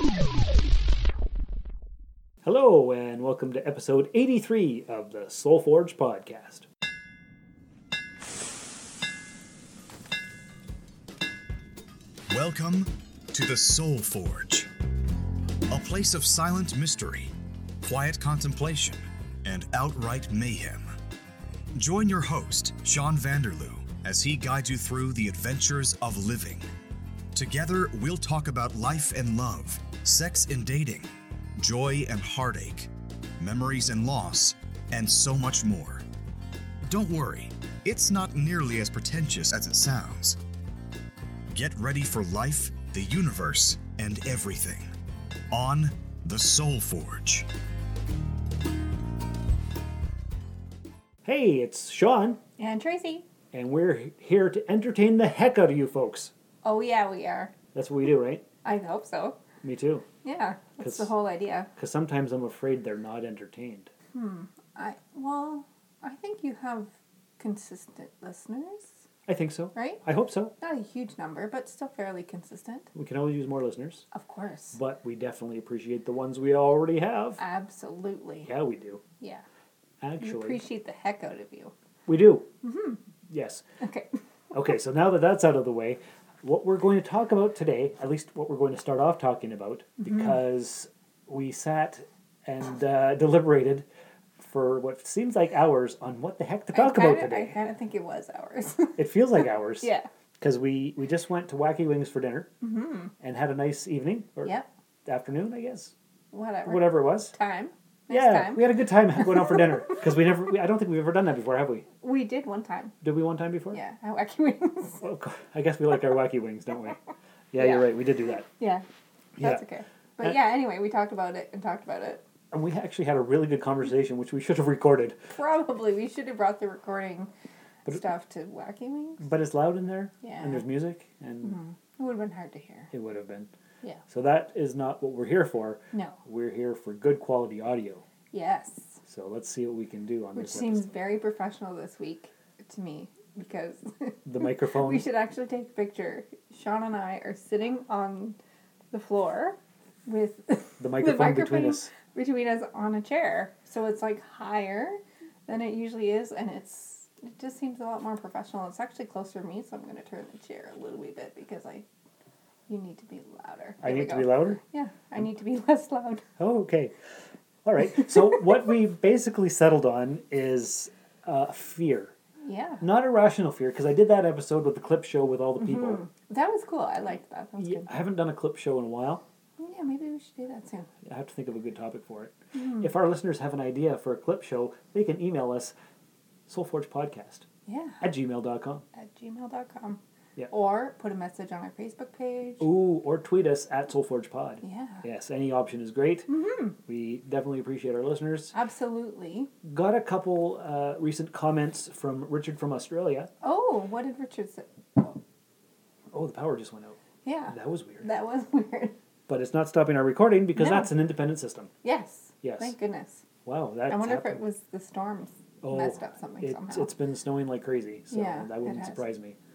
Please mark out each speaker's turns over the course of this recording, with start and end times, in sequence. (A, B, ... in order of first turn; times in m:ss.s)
0:02.4-0:06.7 A
0:12.3-0:14.7 B
0:15.7-0:20.9 B
0:21.7-0:26.7 B
0:27.3-0:36.0 B
0:36.9-0:40.4 B
0:41.5-0:44.9 B
0:45.5-0:47.5 B
0:51.2-0:52.4 A
0:52.6-0:53.3 C
0:53.5-0:56.3 A
0:56.6-0:57.5 C
0:57.7-0:58.4 A
0:58.6-0:59.4 C
0:59.6-1:00.1 A
1:00.2-1:01.7 C
1:00.8-1:01.1 A
1:01.8-1:03.9 A
1:04.1-1:09.0 C
1:09.3-1:10.5 A
1:09.8-1:10.0 C
1:10.6-1:12.9 C
1:12.9-1:14.1 A
1:14.1-1:14.8 C
1:14.7-1:17.4 A
1:17.4-1:18.5 C
1:18.4-1:19.0 A
1:19.2-1:19.4 C
1:20.0-1:20.6 A
1:20.2-1:21.7 C
1:22.1-1:22.5 A
1:22.6-1:23.0 C
1:23.3-1:23.6 A
1:23.8-1:24.1 C
1:24.5-1:33.9 A
1:30.0-1:30.3 C
1:34.4-1:37.6 A
1:36.7-1:40.1 C
1:39.0-1:42.5 A
1:42.6-1:43.1 C
1:43.2-1:45.9 A
1:46.3-1:50.0 C
1:46.6-1:47.4 A
1:48.1-1:51.9 A
1:52.0-1:52.9 C
1:53.0-1:53.8 A
1:53.7-1:55.0 C
1:55.0-1:57.0 A
1:57.5-1:58.5 A
1:57.6-1:57.9 C
1:58.6-1:58.8 C
1:59.4-1:59.6 A
1:59.4-2:02.2 C
2:02.5-2:05.2 A
2:05.3-2:07.3 C
2:07.8-2:09.3 C
2:09.2-2:11.6 A
2:10.2-2:10.6 C
2:11.4-2:12.9 C
2:12.9-2:13.5 A
2:14.1-2:18.0 A
2:15.9-2:16.2 C
2:18.3-2:19.0 C
2:19.1-2:20.9 A
2:20.4-2:28.4 C
2:24.2-2:25.1 A
2:28.9-2:41.8 C
2:30.8-2:31.9 A
2:42.7-2:46.2 C
2:43.8-2:44.6 A
2:46.4-2:46.9 A
2:47.6-2:52.1 A
2:52.4-2:52.8 C
2:52.8-2:56.0 A
2:55.6-2:57.9 C
2:57.6-2:59.2 A
2:59.6-3:00.9 C
3:01.0-3:05.7 A
3:02.6-3:02.9 C
3:06.5-3:07.5 A
3:07.7-3:08.0 C
3:08.0-3:08.8 A
3:08.9-3:12.7 C
3:12.6-3:18.5 A
3:14.6-3:15.0 C
3:16.3-3:16.8 C
3:18.5-3:19.5 C
3:19.6-3:23.3 A
3:23.4-3:25.2 C
3:26.1-3:27.0 A
3:27.2-3:29.0 C
3:27.5-3:28.1 A
3:29.3-3:31.7 A
3:30.6-3:30.9 C
3:31.8-3:33.2 C
3:32.4-3:32.7 A
3:33.4-3:34.4 A
3:33.9-3:36.9 C
3:35.6-3:39.4 A
3:38.1-3:39.1 C